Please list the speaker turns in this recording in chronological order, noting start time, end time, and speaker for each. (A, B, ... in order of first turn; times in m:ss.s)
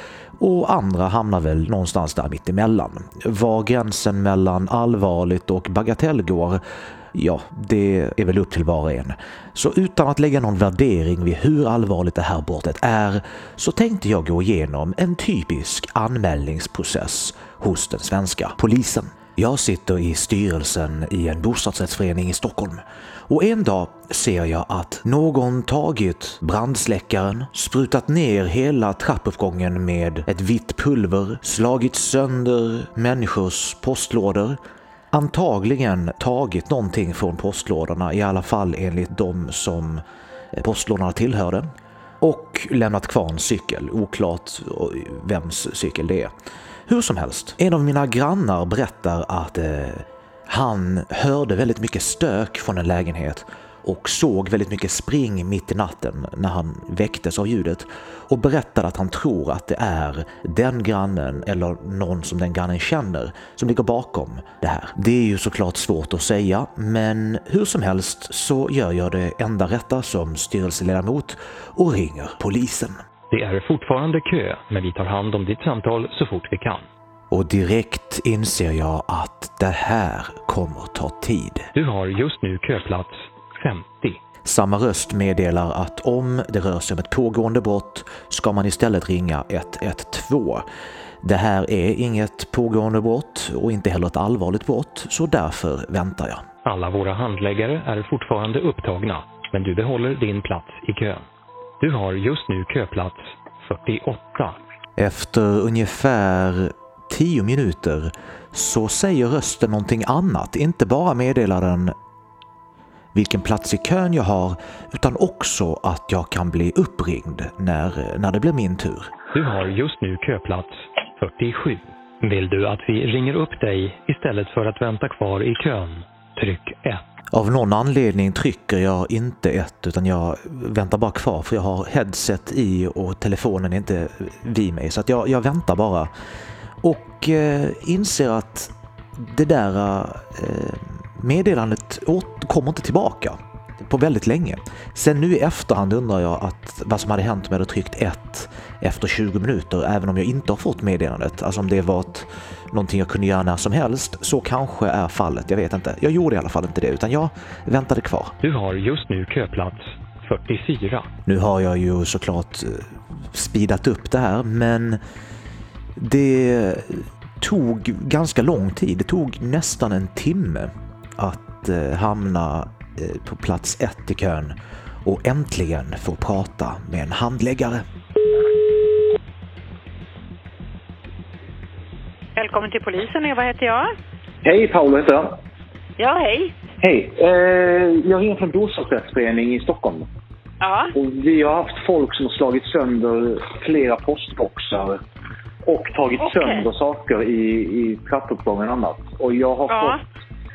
0:00.4-0:06.6 A
0:07.1-0:34.6 A
0:35.1-0:40.0 A
0:40.6-0:41.7 A
0:42.2-0:46.3 A
0:46.9-1:13.0 A
1:13.3-1:16.8 B
1:17.3-1:21.7 A
1:21.7-1:24.2 B
1:24.4-1:30.6 A
1:31.2-1:36.4 A
1:36.6-1:41.2 B
1:41.8-1:44.6 B
1:45.0-1:52.0 A
1:53.2-1:59.1 A
1:59.3-2:07.0 B
2:07.3-2:16.1 A
2:16.8-2:38.3 A
2:38.4-2:41.1 B
2:41.3-2:45.0 A
2:46.0-2:57.8 A
3:02.4-3:03.9 C
3:04.4-3:05.3 D
3:06.0-3:06.6 C
3:06.8-3:10.1 D
3:10.6-3:10.9 C
3:11.0-3:15.0 D
3:15.6-3:20.0 D
3:16.2-3:16.7 C
3:19.7-3:20.0 C